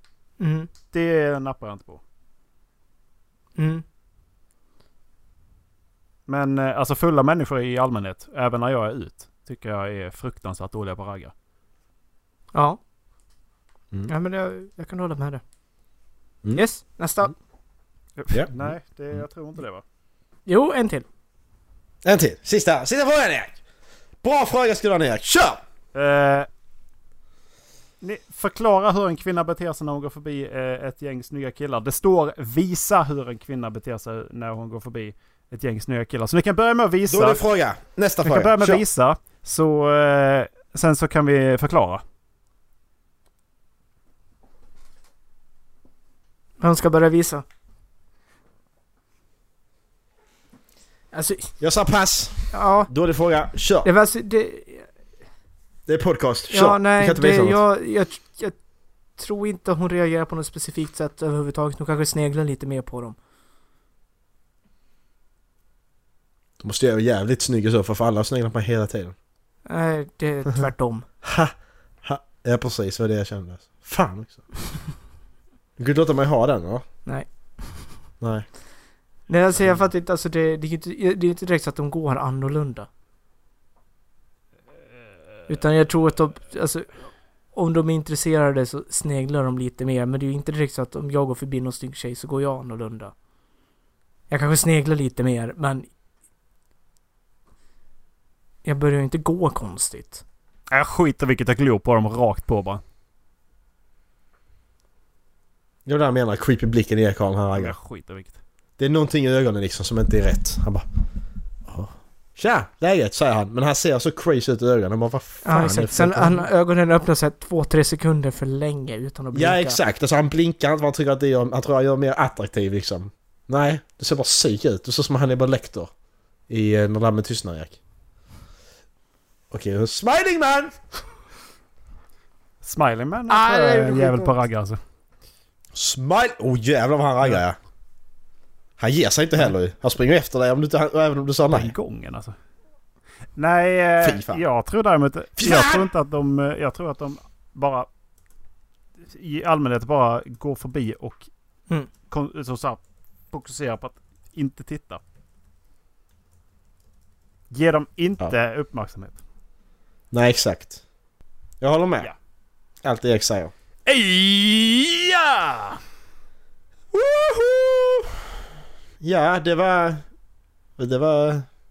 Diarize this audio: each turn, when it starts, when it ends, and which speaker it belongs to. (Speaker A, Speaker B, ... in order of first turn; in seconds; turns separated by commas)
Speaker A: 0.4-0.7, Speaker B: 0.9-2.0, Speaker A: 3.5-3.8, Speaker B: 6.3-11.3, Speaker A: 12.5-12.8, Speaker A: 14.1-15.4, Speaker A: 16.5-17.3, Speaker B: 18.1-19.8, Speaker C: 18.3-18.7, Speaker A: 20.5-21.1, Speaker C: 22.0-23.6, Speaker C: 24.2-25.6, Speaker B: 25.9-26.5, Speaker B: 28.0-37.4, Speaker C: 37.1-38.8, Speaker B: 38.2-42.0, Speaker A: 46.6-47.4, Speaker A: 51.1-51.5, Speaker C: 51.6-53.9, Speaker A: 52.5-52.9, Speaker A: 53.8-54.9, Speaker C: 55.9-57.6, Speaker A: 56.5-58.6, Speaker A: 59.1-63.2, Speaker C: 66.6-69.1, Speaker A: 69.7-71.0, Speaker C: 71.2-74.4, Speaker C: 75.8-76.8, Speaker C: 78.2-78.5, Speaker A: 79.3-82.9, Speaker A: 85.5-86.9, Speaker A: 87.5-93.1, Speaker A: 94.3-95.9, Speaker A: 98.6-100.2, Speaker B: 100.7-102.8, Speaker C: 105.8-107.8, Speaker B: 107.5-108.4, Speaker C: 108.8-110.8, Speaker C: 111.7-116.5, Speaker A: 115.4-119.8, Speaker C: 119.3-125.9, Speaker C: 126.5-127.8, Speaker C: 129.5-130.7, Speaker B: 132.6-134.8, Speaker A: 133.3-134.3, Speaker C: 135.7-137.6, Speaker C: 138.8-141.7, Speaker B: 141.5-142.3, Speaker B: 143.3-147.9, Speaker C: 144.0-144.4, Speaker C: 145.4-145.9, Speaker B: 149.1-151.3, Speaker B: 152.1-152.8, Speaker B: 153.3-155.0, Speaker B: 157.5-159.2, Speaker C: 160.1-160.8, Speaker C: 161.6-162.1, Speaker C: 162.8-163.5, Speaker B: 163.8-165.8, Speaker C: 166.9-168.3, Speaker C: 169.0-170.0, Speaker C: 170.8-171.5